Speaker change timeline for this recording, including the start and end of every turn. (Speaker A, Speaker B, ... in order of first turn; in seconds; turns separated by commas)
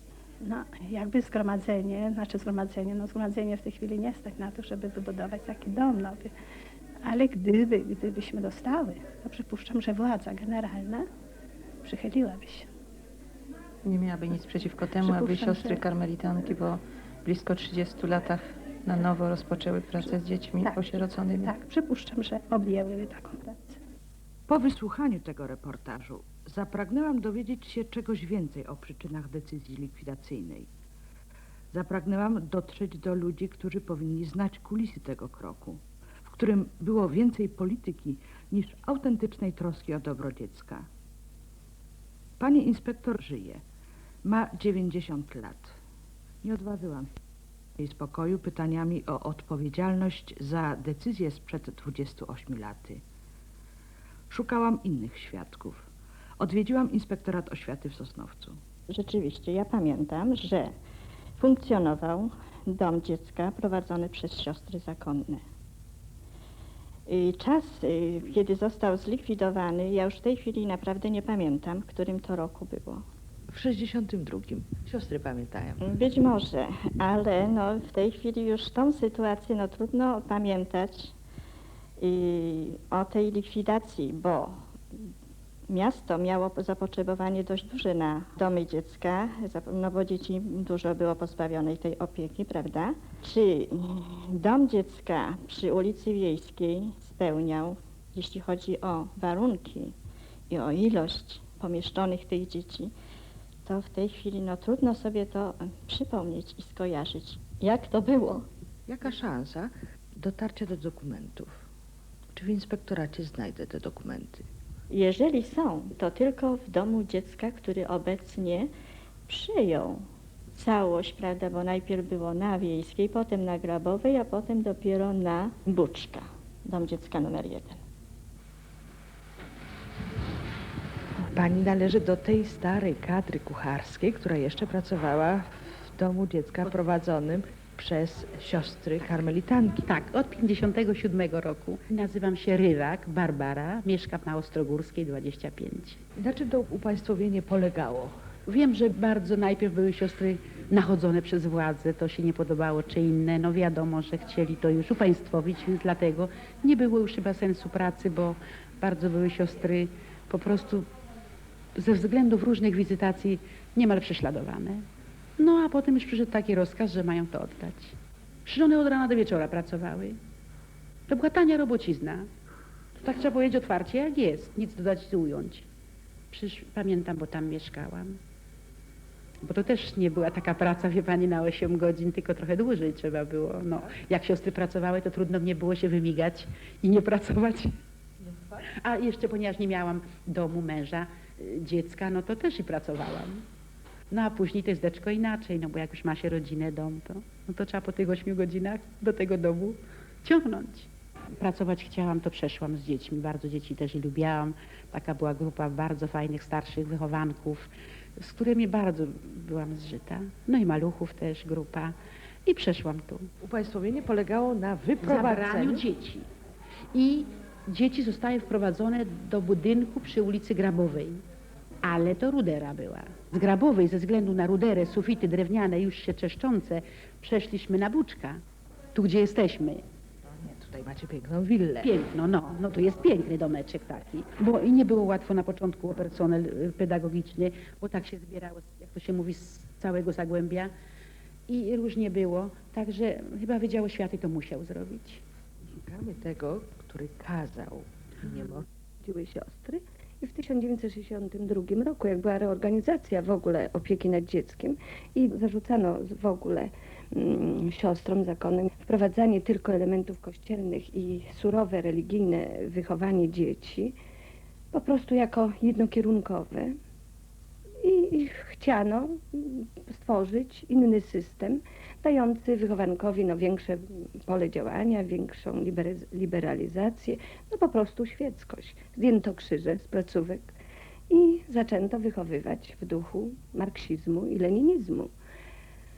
Speaker A: 0.4-6.3, Speaker A: 7.0-11.1, Speaker A: 11.8-12.7, Speaker B: 13.8-21.5, Speaker A: 15.0-15.8, Speaker A: 20.0-23.8, Speaker C: 24.5-30.7, Speaker C: 31.7-40.9, Speaker C: 42.4-43.6, Speaker C: 44.2-45.7, Speaker C: 46.4-47.1, Speaker C: 47.8-53.0, Speaker C: 54.3-55.9, Speaker C: 56.4-58.6, Speaker D: 58.9-60.7, Speaker D: 61.4-65.4, Speaker D: 67.1-73.0, Speaker C: 73.5-75.8, Speaker D: 75.8-81.1, Speaker D: 82.0-84.6, Speaker D: 85.7-99.9, Speaker D: 100.5-102.9, Speaker D: 103.7-108.5, Speaker C: 108.9-111.5, Speaker C: 112.3-114.4, Speaker D: 114.9-118.7, Speaker D: 119.3-127.8, Speaker C: 131.3-139.8, Speaker E: 139.9-146.0, Speaker C: 146.2-148.2, Speaker E: 148.5-160.9, Speaker E: 161.8-164.8, Speaker E: 165.4-170.2, Speaker E: 171.1-172.3, Speaker E: 173.0-175.7, Speaker E: 176.3-178.2, Speaker E: 179.4-187.7, Speaker E: 188.7-193.4, Speaker E: 194.1-211.9, Speaker E: 212.4-213.3, Speaker C: 213.4-215.8, Speaker E: 215.0-216.3, Speaker E: 216.9-221.2, Speaker E: 221.8-228.4, Speaker E: 228.9-229.8, Speaker C: 230.3-231.9, Speaker E: 231.8-240.7, Speaker E: 241.5-245.2, Speaker C: 245.8-248.6, Speaker F: 249.0-263.9, Speaker F: 264.7-266.8, Speaker F: 267.8-280.6, Speaker F: 281.1-285.1